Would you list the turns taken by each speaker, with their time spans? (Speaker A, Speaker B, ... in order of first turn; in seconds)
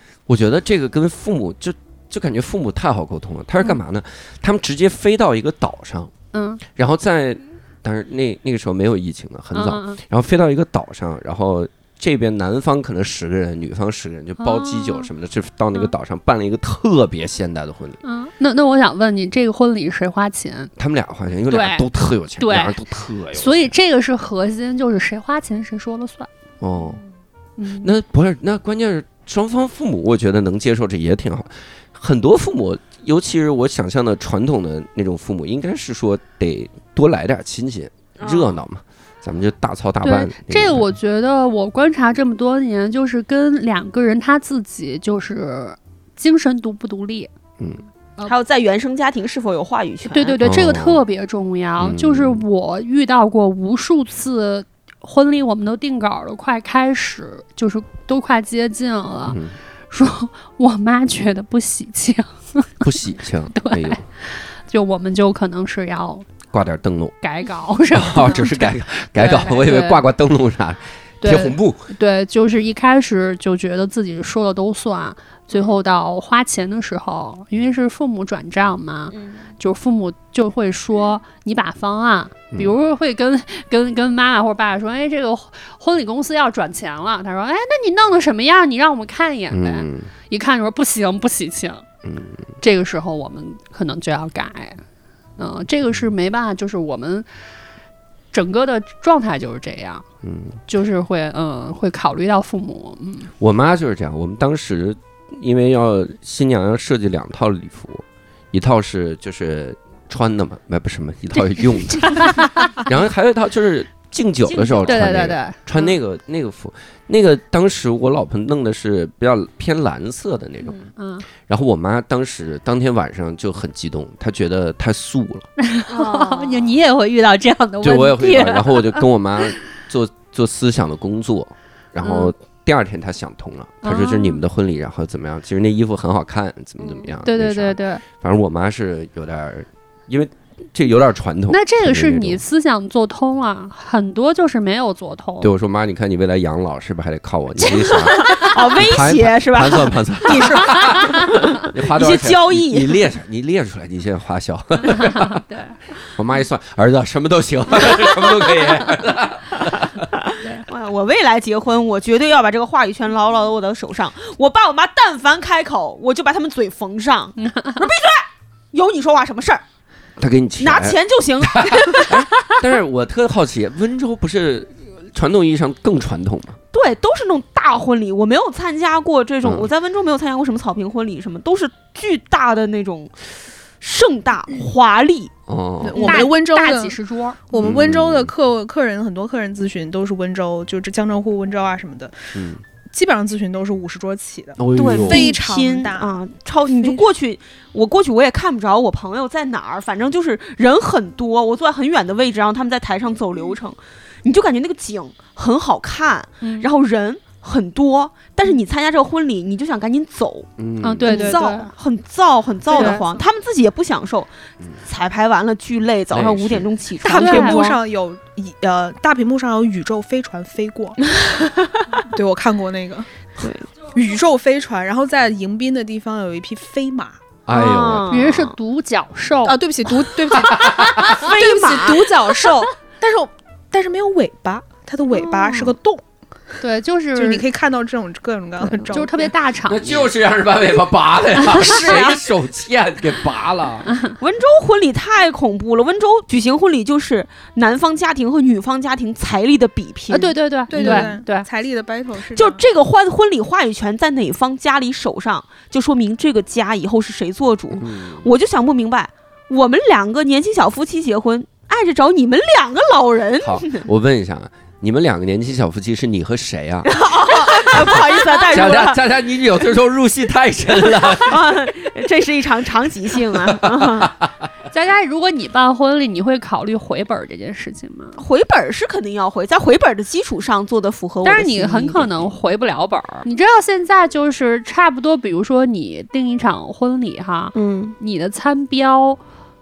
Speaker A: 0.3-6.1, 6.7-18.0, 20.8-23.7, 26.6-27.0, 27.8-40.9, 50.4-51.0, 51.8-52.4, 59.3-59.5, 62.8-64.0, 66.5-67.1, 67.9-71.8, 89.5-90.1, 92.0-92.4, 100.2-100.6, 103.4-120.8, 121.5-125.5, 127.8-142.4, 145.4-155.4, 156.0-160.0, 170.2-176.6, 179.4-179.7, 185.5-186.1, 187.6-188.3, 192.3-192.6, 194.6-195.3, 210.6-211.2, 216.1-216.7, 227.4-228.3, 230.6-231.1, 239.7-243.9, 257.8-258.3, 263.4-266.9, 267.5-271.5, 273.4-274.3
Speaker B: 6.3-6.6, 9.5-10.0, 14.4-15.1, 18.0-20.7, 21.5-21.9, 22.4-22.8, 23.3-26.3, 27.6-27.9, 40.0-47.3, 50.1-59.4, 59.9-62.8, 63.5-66.3, 67.2-70.0, 71.2-91.8, 92.6-94.8, 95.4-97.3, 98.3-100.0, 100.7-103.3, 111.3-112.8, 114.8-115.6, 121.0-121.2, 125.6-129.0, 132.0-132.3, 133.8-134.4, 137.2-138.0, 141.5-145.5, 147.6-148.5, 154.9-155.8, 167.4-167.8, 186.0-187.4, 206.4-206.7, 210.8-211.7, 212.7-213.0, 217.1-217.8, 228.1-229.6, 230.7-231.1, 235.1-235.7, 236.6-237.4, 238.9-240.1, 241.6-241.8, 243.9-244.1, 250.1-251.4, 274.7-278.2, 281.2-289.2
Speaker C: 26.8-27.0, 38.2-38.5, 48.2-50.4, 79.1-79.4, 114.5-114.9, 125.9-126.7, 148.1-153.0, 160.1-169.6, 170.6-172.2, 176.7-185.3, 185.9-186.3, 194.8-210.5, 211.1-214.3, 214.8-217.8, 221.1-222.0, 223.4-223.7, 227.5-228.5, 231.1-232.2, 241.6-242.2, 244.2-251.1, 252.3-263.9, 266.9-269.0, 270.8-274.1, 278.2-282.1, 287.5-287.9
Speaker D: 185.8-187.0, 187.5-192.1, 192.9-196.1, 196.7-197.0, 211.1-211.5, 212.7-213.0, 217.0-221.0, 222.1-223.1, 223.9-227.2, 229.4-236.0, 237.1-239.3, 241.8-242.1, 250.7-252.6